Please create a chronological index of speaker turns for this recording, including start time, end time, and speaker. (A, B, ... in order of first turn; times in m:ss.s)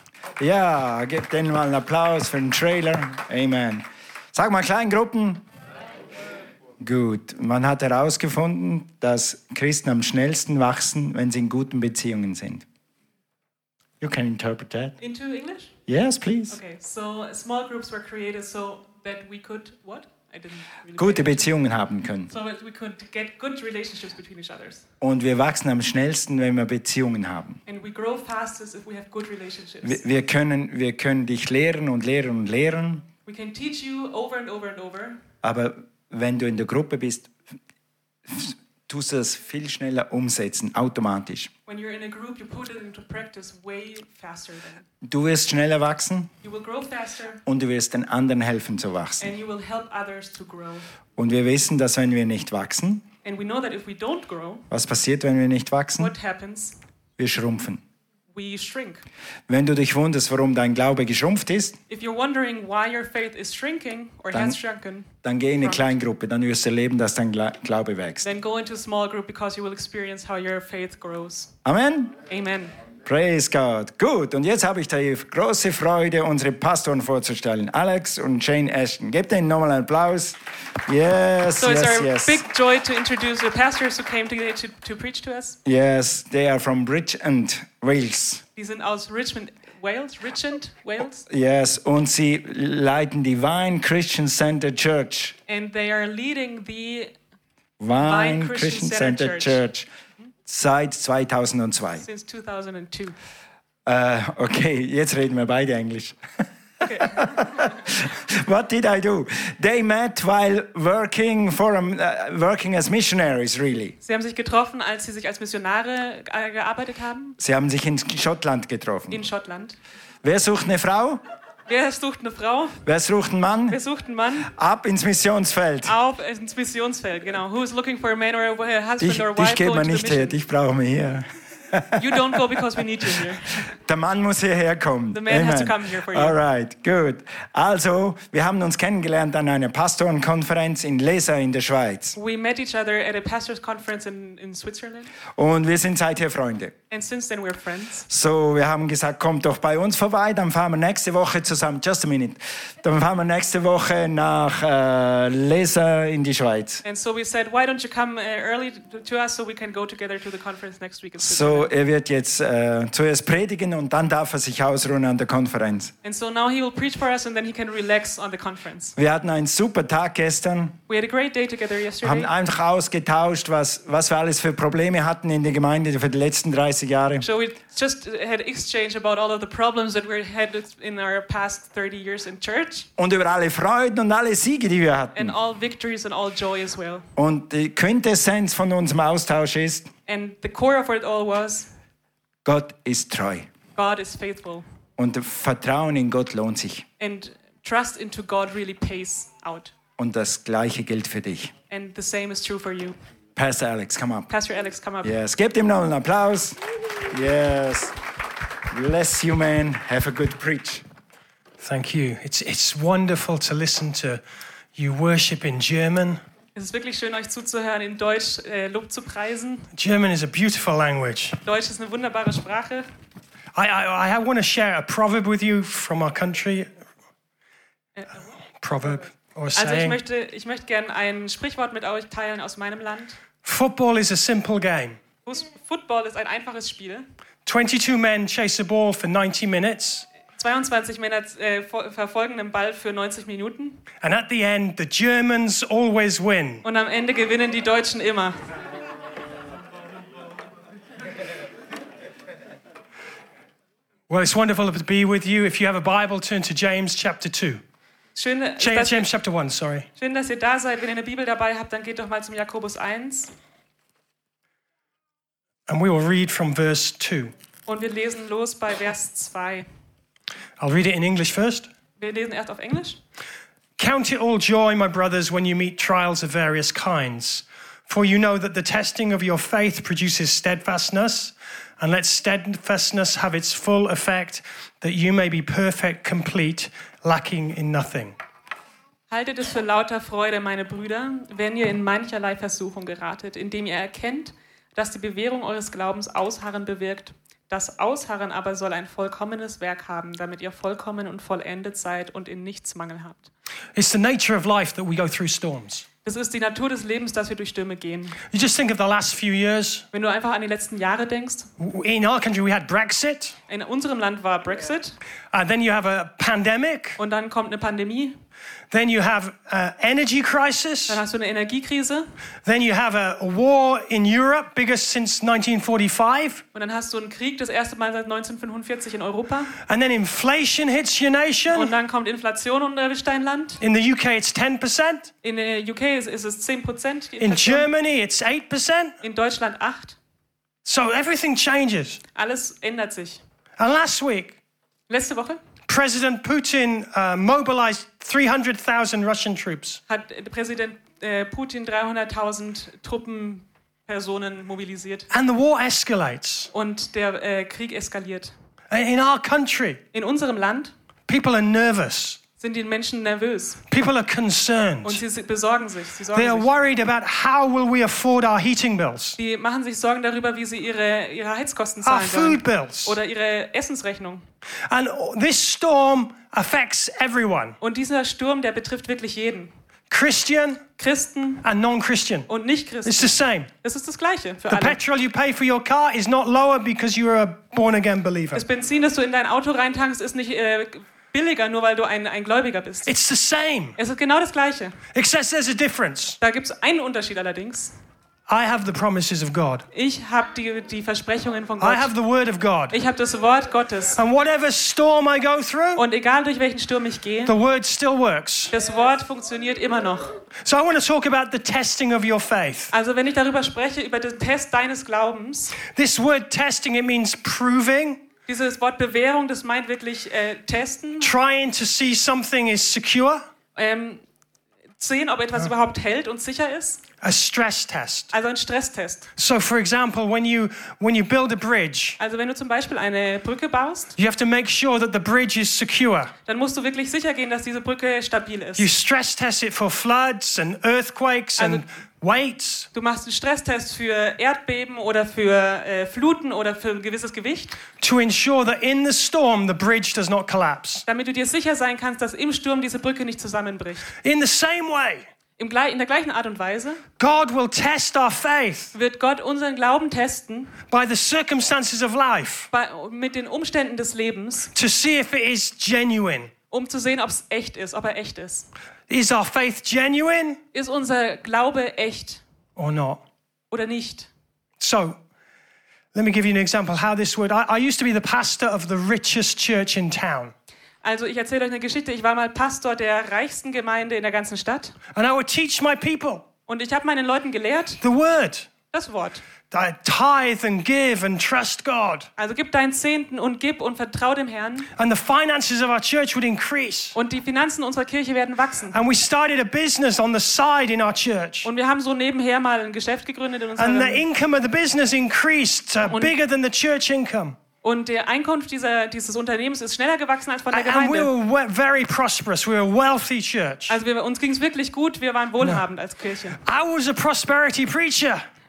0:00.4-0:05.4 A
0:06.8-0:12.6 A
0:14.0-0:15.0 A
0:15.0-0:15.7 B
0:15.9-0:16.6 A
0:16.5-0:21.5 B
0:21.0-0:22.3 A
0:22.3-0:24.8 B
0:25.0-0:27.6 A
0:27.6-0:30.0 B
0:29.8-0:33.1 A
0:33.2-0:35.2 B
0:35.4-0:37.3 A
0:38.3-0:41.5 A
0:41.6-0:44.8 B
0:45.0-0:46.3 A
0:46.4-0:47.4 B
0:47.4-0:49.3 A
0:49.2-0:50.9 B
0:51.2-0:53.0 A
0:53.2-0:54.7 B
0:54.7-0:56.1 A
0:56.0-0:56.8 B
0:57.2-0:57.8 A
0:58.3-0:59.0 B
0:59.5-1:01.8 A
1:01.9-1:05.8 B
1:05.2-1:08.3 A
1:08.2-1:11.5 B
1:11.6-1:12.1 A
1:12.3-1:12.7 B
1:13.0-1:22.4 A
1:21.6-1:25.6 B
1:25.6-1:28.4 A
1:28.6-1:31.3 B
1:31.3-1:35.4 A
1:35.5-1:37.1 B
1:37.8-1:39.8 A
1:38.0-1:39.6 B
1:40.4-1:42.0 A
1:42.0-1:43.1 B
1:43.8-1:46.2 A
1:46.8-1:47.1 B
1:47.0-1:53.9 A
1:54.0-1:57.4 B
1:57.4-1:59.2 A
1:59.1-1:59.8 B
2:00.2-2:01.2 A
2:01.7-2:02.8 B
2:02.8-2:03.8 A
2:03.7-2:04.5 B
2:04.5-2:05.9 A
2:05.8-2:10.4 B
2:09.0-2:12.3 A
2:11.9-2:13.6 B
2:13.8-2:22.2 A
2:15.1-2:16.4 B
2:22.2-2:25.1 B
2:25.3-2:26.8 A
2:26.9-2:28.1 B
2:28.1-2:36.8 A
2:36.8-2:41.7 B
2:41.2-2:45.9 A
2:46.0-2:48.9 B
2:49.0-2:50.8 A
2:50.9-2:52.3 B
2:52.0-2:57.2 A
2:57.2-3:02.9 B
3:03.0-3:05.3 A
3:05.1-3:07.1 B
3:07.2-3:09.9 A
3:10.1-3:11.7 B
3:12.4-3:13.5 A
3:13.7-3:14.6 B
3:15.0-3:16.8 A
3:17.0-3:19.7 B
3:20.0-3:21.5 A
3:21.7-3:23.0 B
3:23.3-3:24.3 A
3:24.3-3:25.2 B
3:25.0-3:27.9 A
3:28.7-3:30.8 A
3:31.6-3:34.2 C
3:34.8-3:36.2 C
3:36.5-3:39.7 B
3:39.8-3:41.4 C
3:41.4-3:42.9 B
3:43.5-3:46.7 C
3:48.0-3:48.2 B
3:48.6-3:50.0 C
3:49.5-3:53.2 B
3:53.4-3:55.0 C
3:55.2-3:57.0 B
3:57.4-4:00.0 C
4:00.4-4:03.8 B
4:04.0-4:06.6 C
4:06.6-4:08.4 B
4:14.1-4:17.6 C
4:18.1-4:19.1 B
4:18.6-4:19.9 C
4:20.0-4:23.3 B
4:25.7-4:27.3 C
4:27.7-4:29.6 B
4:30.6-4:31.7 C
4:32.0-4:33.0 B
4:33.8-4:48.1 C
4:49.1-5:03.3 B
5:03.8-5:05.8 C
5:06.0-5:08.2 B
5:08.3-5:09.8 C
5:09.9-5:11.5 B
5:11.6-5:13.4 C
5:13.5-5:15.0 B
5:15.3-5:17.0 C
5:17.0-5:18.2 B
5:18.7-5:21.0 C
5:20.9-5:22.1 B
5:22.4-5:26.4 C
5:26.5-5:29.6 B
5:29.6-5:31.7 C
5:31.5-5:33.6 B
5:33.6-5:35.1 C
5:35.2-5:37.7 B
5:37.2-5:39.0 C
5:39.0-5:40.0 B
5:40.6-5:42.0 C
5:42.1-5:43.2 B
5:43.6-5:44.4 C
5:44.9-5:45.4 B
5:45.7-5:49.8 C
5:49.9-5:55.1 B
5:55.1-5:56.5 C
5:56.5-5:58.3 B
5:58.7-5:59.8 C
5:59.9-6:00.7 B
6:01.1-6:02.2 C
6:02.4-6:03.6 B
6:03.7-6:05.0 C
6:04.8-6:06.5 B
6:06.1-6:09.2 C
6:09.2-6:14.2 B
6:11.8-6:13.0 C
6:14.7-6:17.6 C
6:17.6-6:19.5 B
6:19.9-6:20.6 C
6:20.8-6:21.4 B
6:21.4-6:22.3 C
6:22.3-6:24.8 B
6:22.8-6:23.5 C
6:24.5-6:28.4 C
6:28.3-6:32.9 B
6:32.8-6:33.8 C
6:33.8-6:34.8 B
6:34.9-6:36.2 C
6:36.2-6:37.7 B
6:38.3-6:39.6 C
6:39.7-6:41.9 B
6:41.6-6:42.8 C
6:42.7-6:44.0 B
6:44.0-6:45.8 C
6:45.7-6:47.3 B
6:47.2-6:48.5 C
6:48.5-6:50.2 B
6:50.4-6:52.7 C
6:52.7-6:55.6 B
6:55.7-6:58.0 C
6:58.3-7:01.1 B
7:01.0-7:03.2 C
7:03.6-7:04.0 B
7:04.8-7:06.8 B
7:07.0-7:08.1 C
7:08.1-7:09.1 B
7:09.2-7:12.0 C
7:12.0-7:14.0 B
7:14.0-7:16.1 C
7:16.2-7:18.7 B
7:18.6-7:22.7 C
7:21.4-7:21.6 B
7:22.7-7:27.6 B
7:27.8-7:30.8 C
7:30.9-7:33.9 B
7:34.0-7:35.0 C
7:35.4-7:36.8 B
7:37.0-7:38.7 C
7:38.7-7:40.6 B
7:40.7-7:42.5 C
7:42.5-7:44.5 B
7:44.5-7:46.3 C
7:46.5-7:48.5 B
7:48.9-7:50.4 C
7:50.5-7:52.2 B
7:52.6-7:53.0 C
7:53.5-7:54.1 B
7:54.6-7:55.0 C
7:55.9-8:00.3 C
8:00.8-8:04.8 B
8:04.9-8:06.2 C
8:06.5-8:07.8 B
8:07.8-8:08.5 C
8:08.7-8:09.2 B
8:09.5-8:12.1 C
8:12.2-8:14.7 B
8:14.8-8:16.9 C
8:16.9-8:18.8 B
8:18.7-8:21.5 C
8:21.4-8:24.0 B
8:23.6-8:27.4 C
8:25.8-8:26.1 B
8:27.6-8:31.1 B
8:30.5-8:33.8 C
8:33.7-8:36.4 B
8:35.4-8:35.6 C
8:36.4-8:38.2 C